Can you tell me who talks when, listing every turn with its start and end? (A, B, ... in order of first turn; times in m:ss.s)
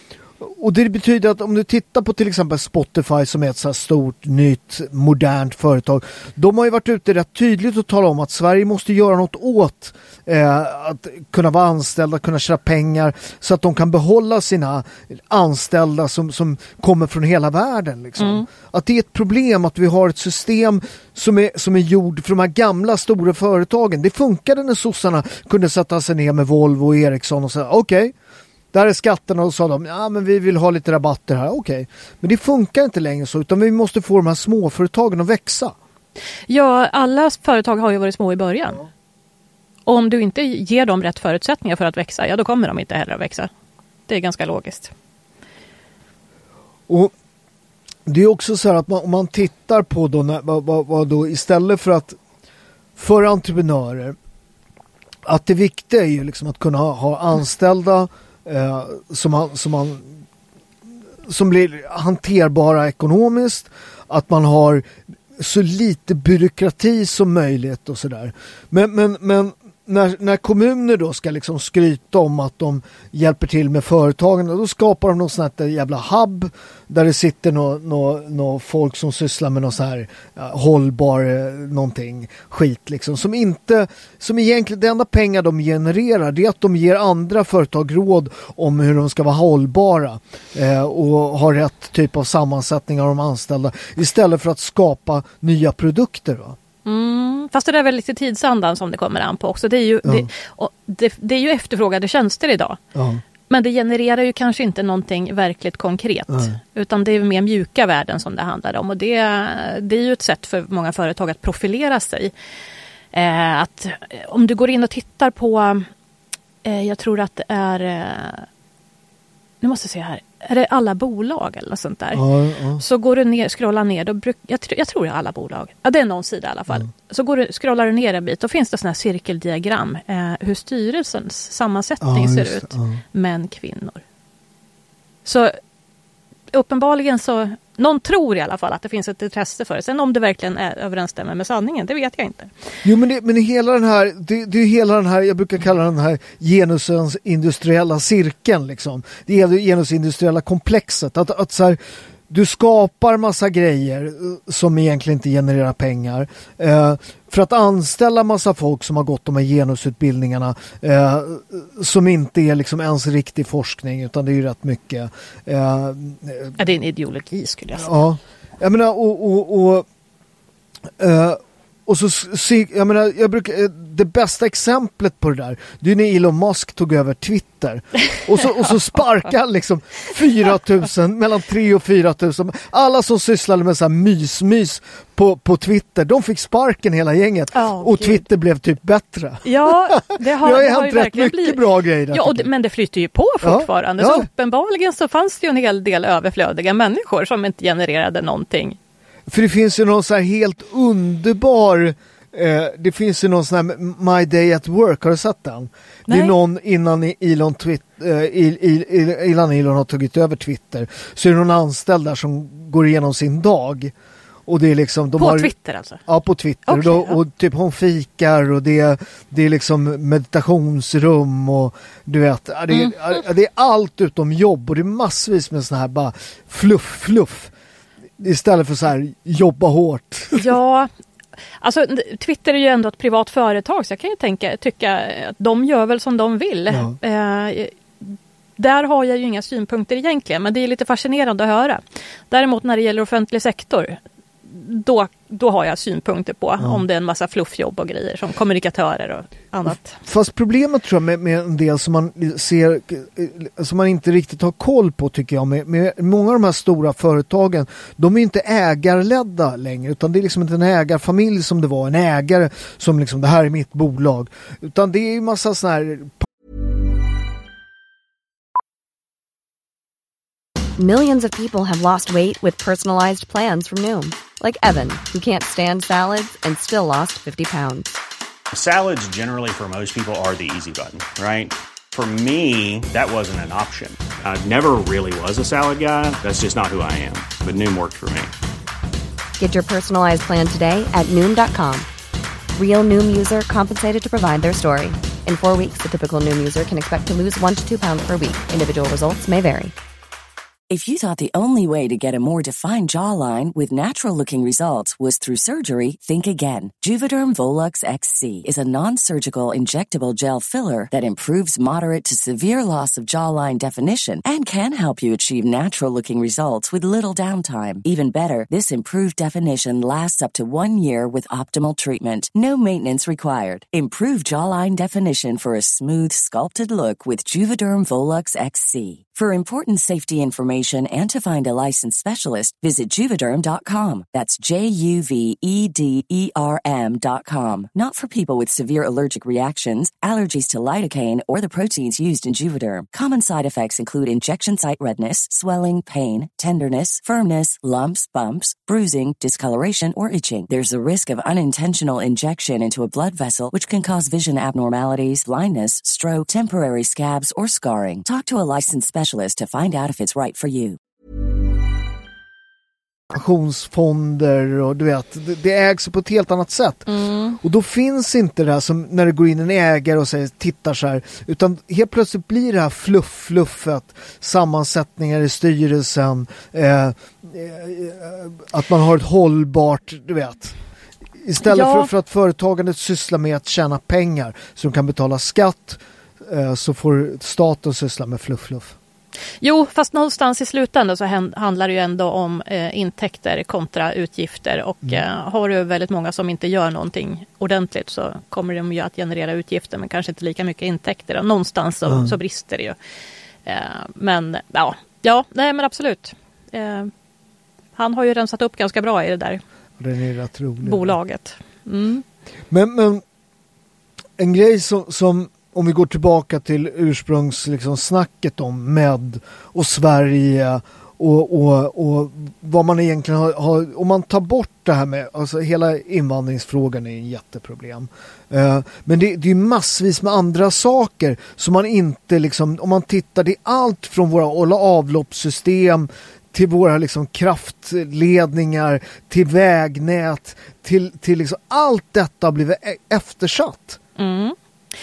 0:00.4-0:28.1 A
0:18.2-0:18.5 B
0:28.7-0:35.8 A
0:36.5-0:38.8 B
0:39.9-0:43.5 B
0:44.1-0:44.9 B
0:46.9-0:47.1 A
0:48.1-0:52.2 A
0:53.0-0:54.2 A
0:55.2-1:00.2 A
1:01.3-1:36.6 A
1:36.8-1:42.8 B
1:42.9-1:43.2 A
1:43.5-1:52.3 B
1:46.3-1:46.6 A
1:53.1-1:55.9 B
1:56.6-1:58.5 B
1:59.6-2:02.2 B
2:02.1-2:02.8 A
2:02.8-2:14.0 B
2:12.0-2:13.0 A
2:15.2-2:15.6 B
2:16.5-2:22.5 B
2:22.8-2:46.6 A
2:46.6-2:48.0 B
2:47.8-2:49.9 A
2:51.0-3:12.5 A
3:07.5-3:08.2 B
3:09.4-3:18.8 B
3:13.4-3:14.3 A
3:19.3-3:33.9 A
3:26.1-3:26.3 B
3:34.5-3:35.5 A
3:35.2-3:36.0 B
3:36.1-3:47.5 A
3:36.7-3:37.2 B
3:48.2-3:50.5 A
3:50.3-3:50.9 B
3:51.6-4:10.0 B
3:56.7-3:57.0 A
4:10.0-4:26.3 A
4:30.8-4:38.0 C
4:38.5-4:48.3 D
4:49.4-4:51.9 C
4:52.6-4:59.8 C
5:00.7-6:00.8 E
6:03.1-6:20.6 A
6:06.9-6:07.4 B
6:21.2-6:28.8 A
6:21.4-6:21.9 B
6:29.4-6:42.8 B
6:41.9-6:42.2 A
6:43.5-6:46.9 B
6:47.8-6:49.4 B
6:49.8-6:51.0 A
6:50.6-6:52.0 B
6:52.5-6:53.0 A
6:54.2-7:23.8 A
7:24.0-7:24.4 B